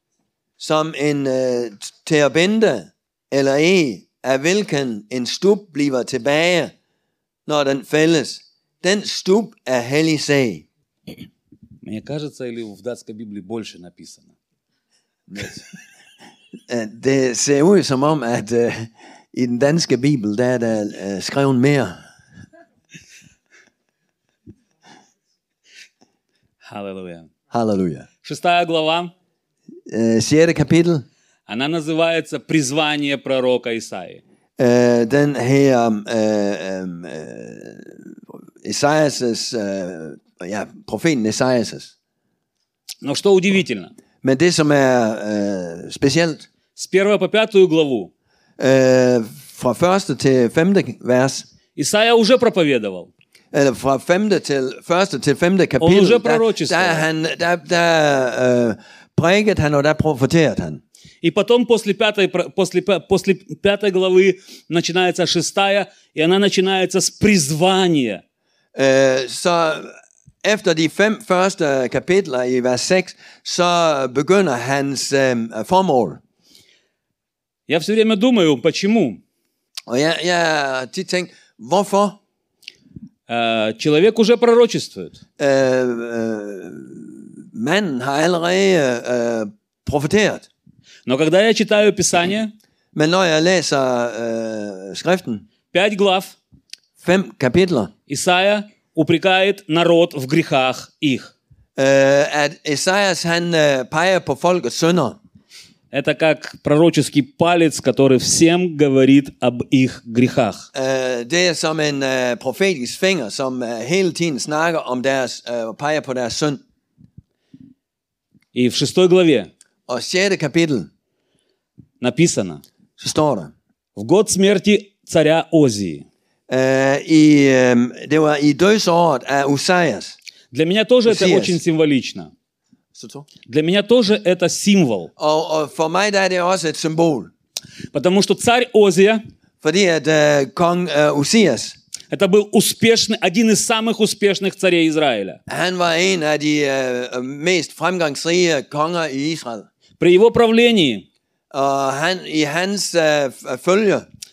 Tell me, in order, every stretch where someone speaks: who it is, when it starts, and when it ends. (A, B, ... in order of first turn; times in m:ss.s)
0:00.6-0:06.7 A
0:07.5-0:10.6 A
0:11.8-0:14.3 B
0:16.7-0:21.9 A
0:26.6-0:27.3 B
0:27.5-0:28.0 A
0:28.2-0:29.1 B
0:29.9-0:31.0 A
0:31.5-0:34.2 B
0:34.6-0:38.0 A
0:38.6-0:41.9 A
0:43.0-0:43.9 B
0:44.2-0:46.4 A
0:46.8-0:48.1 B
0:48.6-0:51.4 A
0:51.8-0:53.1 B
0:53.5-1:00.8 A
0:55.8-0:57.1 B
1:01.2-1:08.2 B
1:08.7-1:09.9 A
1:10.4-1:16.2 A
1:17.7-1:19.2 B
1:19.9-1:22.2 A
1:23.3-1:25.2 B
1:25.4-1:30.5 A
1:31.0-1:32.5 B
1:32.9-1:35.4 A
1:35.7-1:36.4 B
1:37.0-1:37.9 A
1:38.1-1:41.3 B
1:41.8-1:45.2 A
1:45.9-1:50.6 B
1:50.7-1:56.6 A
1:58.5-1:59.5 B
1:59.9-2:00.9 A
2:02.0-2:02.6 B
2:03.0-2:03.5 A
2:04.0-2:06.0 B
2:06.5-2:10.2 A
2:10.5-2:12.3 B
2:11.0-2:11.6 A
2:12.9-2:13.3 A
2:13.5-2:15.1 B
2:15.2-2:17.3 A
2:17.9-2:19.2 B
2:19.6-2:21.8 A
2:22.1-2:25.4 B
2:25.5-2:29.7 A
2:30.0-2:31.0 B
2:31.5-2:34.0 A